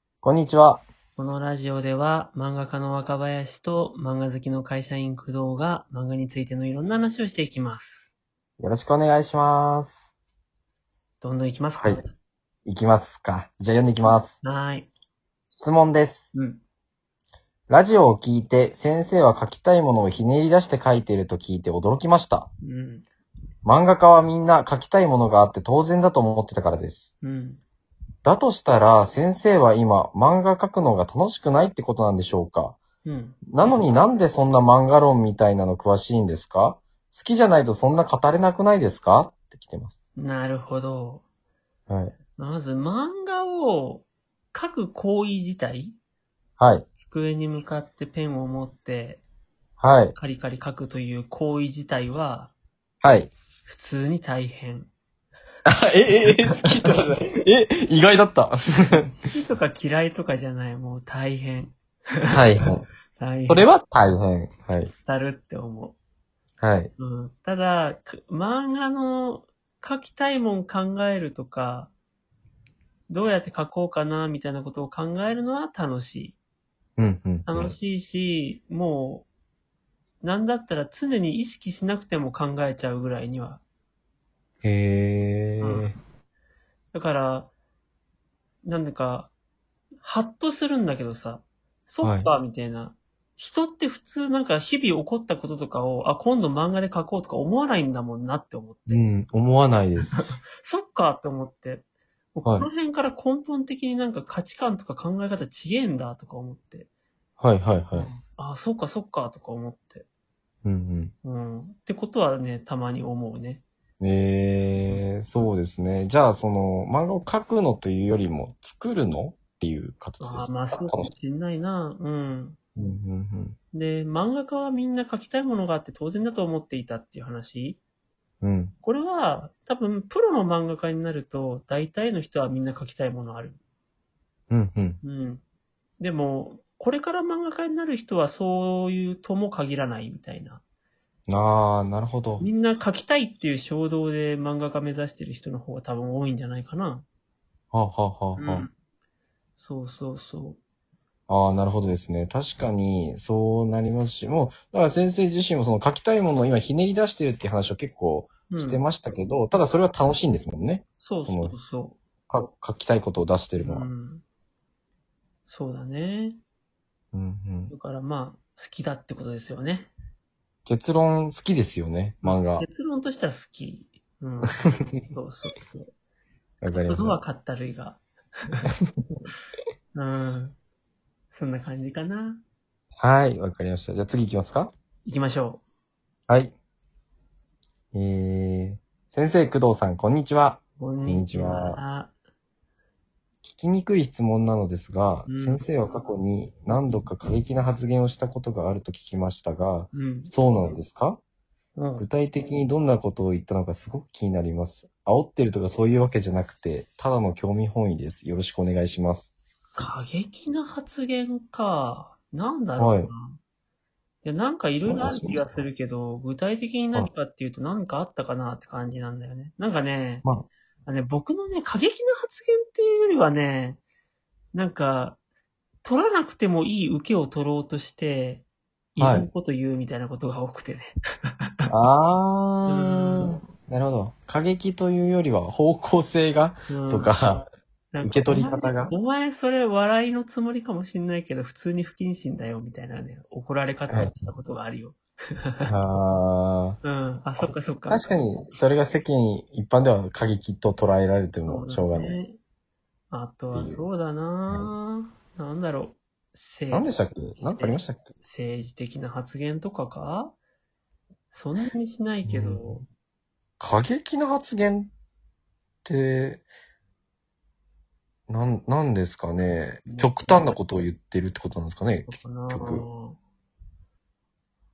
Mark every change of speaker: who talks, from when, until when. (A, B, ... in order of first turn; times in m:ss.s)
0:00.2-0:00.8 A
0:01.2-0:08.2 B
0:08.6-0:10.0 A
0:11.2-0:12.1 B
0:12.6-0:14.4 A
0:14.4-0:14.9 B
0:15.5-0:16.3 A
0:16.3-0:16.6 B
0:17.7-0:22.5 A
0:22.6-0:23.0 B
0:23.6-0:27.1 A
0:27.2-0:27.6 B
0:28.2-0:32.8 A
0:33.0-0:33.4 B
0:33.5-0:40.0 A
0:40.2-0:41.2 B
0:41.9-0:42.2 A
0:42.4-0:46.0 B
0:46.6-0:46.9 A
0:47.0-0:49.2 B
0:49.8-0:50.2 A
0:50.2-0:52.5 B
0:53.0-0:53.3 A
0:53.6-0:54.9 B
0:55.6-0:59.1 A
0:56.2-0:56.6 B
0:59.0-1:02.3 B
1:02.3-1:02.8 A
1:03.2-1:03.7 B
1:03.5-1:04.9 A
1:05.0-1:06.0 B
1:06.6-1:06.9 A
1:07.0-1:11.9 B
1:13.1-1:16.4 B
1:17.0-1:17.8 A
1:17.4-1:19.3 B
1:20.2-1:23.6 B
1:24.6-1:25.9 A
1:25.6-1:25.9 B
1:26.9-1:27.5 B
1:28.6-1:29.3 B
1:30.0-1:39.0 B
1:32.0-1:32.3 A
1:38.9-1:40.3 A
1:40.2-1:46.9 B
1:47.4-1:48.1 A
1:47.9-1:50.0 B
1:50.6-1:51.1 A
1:51.2-1:53.6 B
1:54.0-2:01.1 A
1:54.9-1:55.5 B
2:00.2-2:02.6 B
2:02.8-2:03.6 A
2:03.7-2:07.8 B
2:08.4-2:08.7 A
2:08.8-2:13.6 B
2:14.5-2:15.0 A
2:15.0-2:15.4 B
2:16.0-2:20.6 B
2:21.3-2:22.4 A
2:22.4-2:27.0 B
2:27.7-2:28.7 A
2:28.4-2:28.7 B
2:29.6-2:30.6 B
2:31.3-2:41.5 A
2:38.5-2:38.8 B
2:41.0-2:42.0 B
2:42.3-2:43.9 A
2:43.6-2:44.2 B
2:45.5-2:46.4 B
2:47.1-2:47.7 A
2:47.7-2:49.9 B
2:50.6-2:52.6 A
2:52.2-2:55.9 B
2:56.6-2:57.2 A
2:56.6-2:58.6 B
2:59.9-3:00.6 B
3:01.3-3:02.4 B
3:03.0-3:04.7 A
3:05.0-3:05.6 B
3:06.3-3:06.5 A
3:07.9-3:11.8 A
3:10.8-3:12.1 B
3:13.4-3:21.2 A
3:15.3-3:15.6 B
3:19.9-3:20.3 B
3:21.8-3:22.1 B
3:22.0-3:29.3 A
3:29.8-3:33.4 B
3:32.8-3:33.1 A
3:34.2-3:40.2 B
3:34.8-3:35.6 A
3:40.8-3:43.8 B
3:44.5-3:45.2 B
3:45.8-3:51.7 B
3:49.0-3:49.3 A
3:51.7-3:57.4 A
3:52.7-3:53.4 B
3:56.7-3:57.1 B
3:57.9-4:05.7 B
3:58.0-3:58.9 A
4:03.9-4:04.1 A
4:05.7-4:06.8 A
4:06.8-4:08.0 B
4:07.9-4:12.2 A
4:11.3-4:12.4 B
4:13.1-4:20.3 B
4:13.5-4:13.8 A
4:16.7-4:18.0 A
4:21.3-4:22.8 B
4:22.2-4:22.8 A
4:23.6-4:24.9 A
4:25.8-4:26.4 A
4:28.3-4:32.8 A
4:29.8-4:30.5 B
4:32.0-4:33.2 B